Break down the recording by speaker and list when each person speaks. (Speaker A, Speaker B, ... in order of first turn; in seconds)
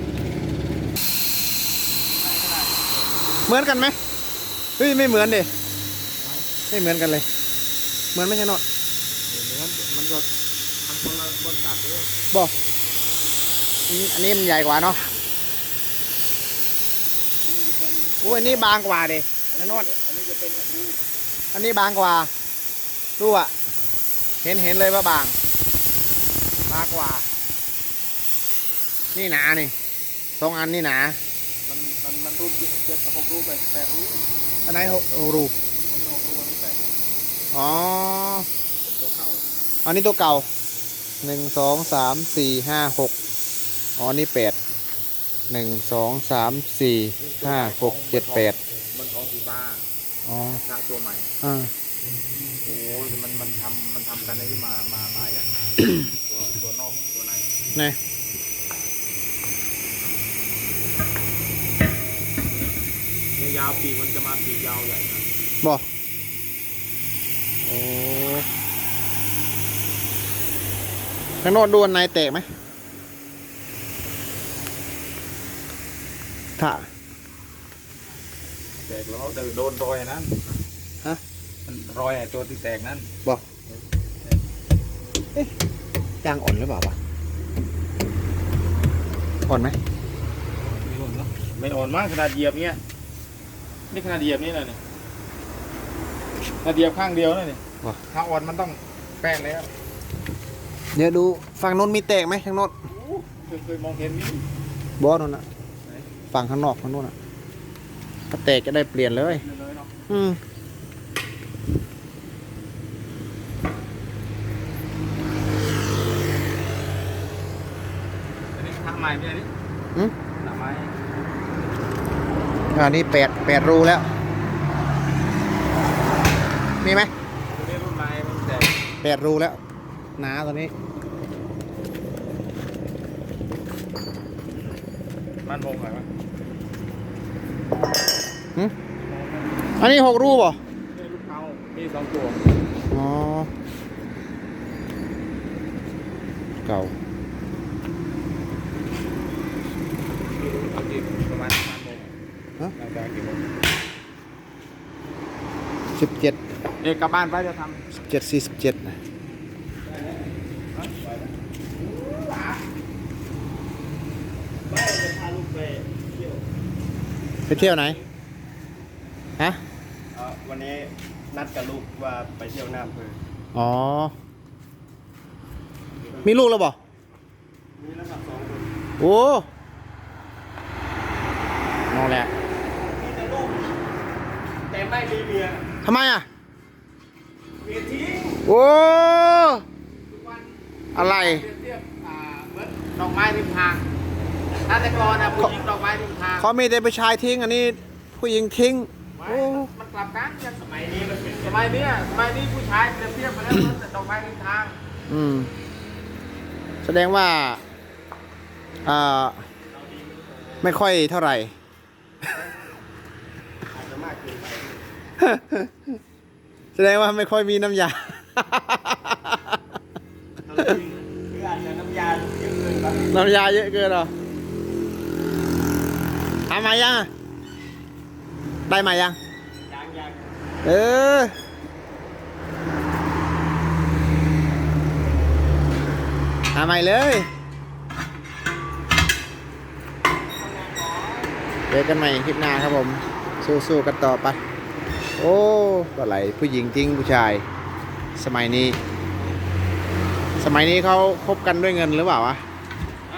Speaker A: 2.2-3.0, 6.2-6.5, 9.3-10.3, 10.8-12.1, 17.4-18.7, 19.5-21.0, 31.7-34.2, 35.9-37.0, 38.8-39.4, 47.2-49.9, 50.6-51.3, 52.6-57.5, 63.4-65.3, 78.8-80.3, 81.7-83.0, 83.7-84.4, 90.6-92.8, 93.9-94.8, 96.6-99.7, 102.9-104.4, 109.2-110.0, 118.5-119.5, 120.4-120.9, 127.5-128.8, 135.4-136.1, 139.0-139.6, 140.9-142.4, 150.3-152.1, 152.8-153.4, 156.8-157.8, 161.9-162.6, 190.1-193.8, 194.6-196.5, 199.2-200.6, 201.4-204.8
Speaker B: 3.5-4.0, 4.8-5.5, 6.7-7.2, 8.1-8.6, 13.9-15.0, 18.2-19.9, 21.5-22.3, 23.2-23.5, 24.4-25.4, 26.7-27.2, 29.1-29.7, 30.4-31.2, 34.6-35.5, 37.5-38.5, 39.8-40.5, 41.2-43.1, 44.0-44.6, 45.5-48.6, 50.2-50.6, 51.4-51.7, 67.6-68.5, 71.4-72.5, 76.6-76.8, 86.2-87.0, 89.5-89.8, 100.9-102.7, 105.0-105.4, 106.3-107.1, 108.3-109.4, 110.1-110.4, 122.7-124.0, 126.8-127.1, 129.0-129.6, 130.2-130.7, 139.8-140.6, 142.9-143.5, 146.6-146.9, 155.9-156.4, 158.1-158.9, 167.5-168.0, 173.5-174.1, 176.2-176.8, 179.0-179.5, 181.9-182.3, 185.8-186.2, 188.4-189.6, 190.9-191.5, 196.4-199.7, 205.1-205.5, 206.8-207.6, 208.8-209.4, 210.6-211.5, 215.2-215.8, 216.8-219.6, 223.1-224.1, 226.5-227.1, 228.7-229.2, 230.6-231.3, 236.5-237.3, 241.7-244.4, 245.2-247.4, 248.2-248.8, 250.4-252.4
Speaker C: 159.8-160.2, 161.0-161.3, 164.7-166.4, 167.7-168.0, 170.1-173.2, 177.8-178.7, 182.8-183.7, 184.7-185.7, 187.6-188.4, 194.7-195.6, 200.6-202.3, 209.7-210.7, 213.7-214.8, 220.4-223.1, 229.6-230.3, 240.3-241.4